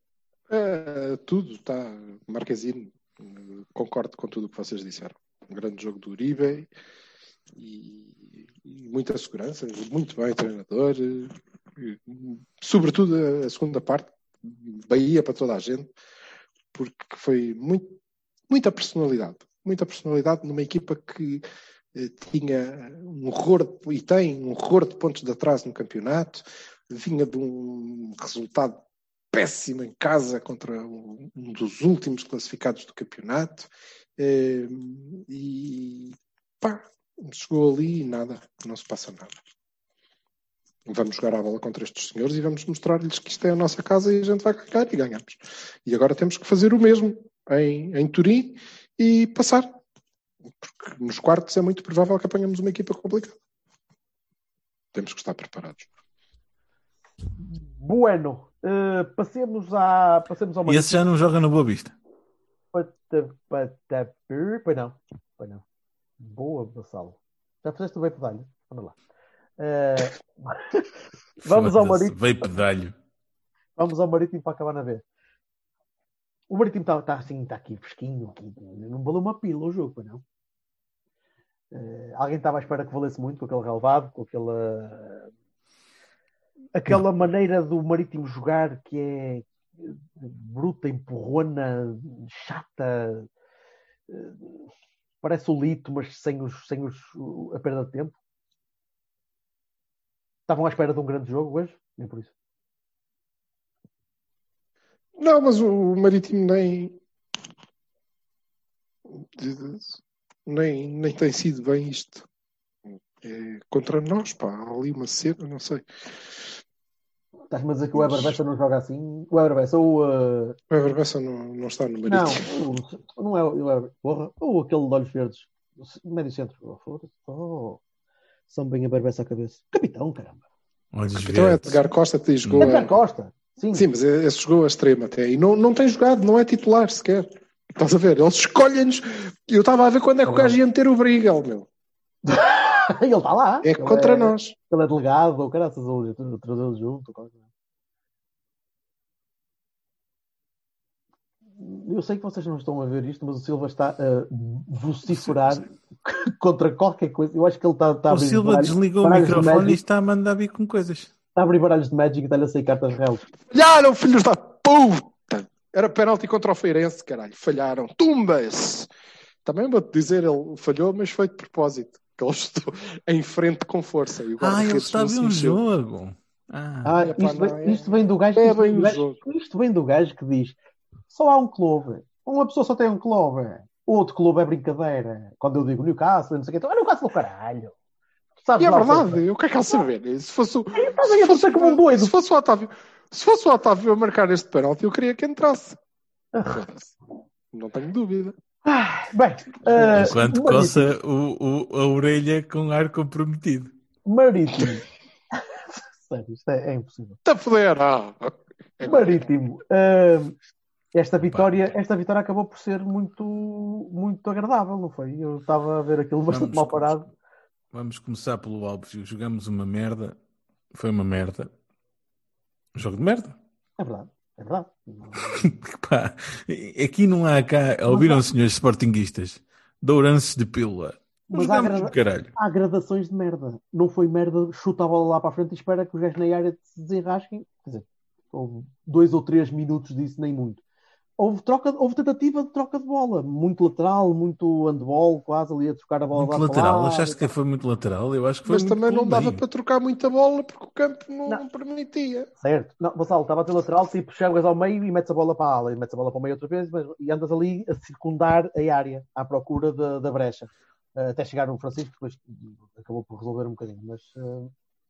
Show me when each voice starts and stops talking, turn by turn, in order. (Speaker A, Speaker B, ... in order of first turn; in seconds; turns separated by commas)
Speaker A: 0.5-6.7, Speaker A: 7.5-15.9, Speaker A: 16.7-18.0, Speaker A: 18.5-39.4, Speaker A: 40.9-49.7, Speaker A: 50.6-53.4, Speaker A: 54.9-55.9, Speaker B: 57.5-61.0, Speaker C: 60.6-61.9, Speaker B: 62.7-65.6, Speaker B: 66.2-68.9, Speaker B: 69.6-70.9, Speaker B: 71.4-72.2, Speaker C: 71.5-72.9, Speaker B: 73.8-75.0, Speaker B: 76.5-80.2, Speaker B: 81.7-85.3, Speaker B: 86.7-93.3, Speaker B: 94.1-94.6, Speaker B: 95.2-98.2, Speaker B: 100.5-102.3, Speaker A: 105.2-107.0, Speaker A: 109.1-112.2, Speaker A: 112.9-116.5, Speaker B: 117.5-120.6, Speaker A: 117.9-118.4, Speaker A: 120.7-122.5, Speaker B: 122.1-127.8, Speaker B: 128.5-130.4, Speaker C: 130.9-131.8, Speaker A: 131.1-132.9, Speaker B: 132.6-133.9, Speaker A: 133.7-141.7, Speaker B: 140.2-140.6, Speaker B: 142.2-147.4, Speaker A: 143.6-144.5, Speaker B: 151.6-159.8, Speaker C: 158.1-161.1, Speaker B: 161.3-163.2, Speaker A: 163.4-168.9, Speaker A: 169.4-175.6, Speaker C: 174.4-177.0, Speaker B: 176.8-180.6, Speaker A: 177.0-179.2, Speaker B: 181.1-187.7, Speaker B: 188.4-189.2, Speaker A: 188.6-195.8, Speaker B: 190.7-192.1, Speaker B: 196.3-196.6, Speaker A: 196.5-196.9, Speaker A: 197.5-198.3, Speaker B: 198.6-200.9, Speaker C: 199.8-203.7, Speaker B: 204.1-207.2, Speaker A: 207.2-209.3, Speaker B: 208.8-210.4, Speaker B: 210.9-217.1, Speaker C: 211.2-211.5, Speaker C: 216.3-217.0, Speaker C: 217.7-220.2, Speaker C: 220.7-221.5, Speaker C: 222.7-223.3, Speaker B: 223.8-225.5, Speaker C: 225.4-232.3, Speaker B: 227.9-228.2, Speaker B: 231.3-240.6, Speaker B: 241.2-247.3, Speaker C: 246.1-249.4, Speaker A: 248.4-252.3, Speaker B: 252.4-264.5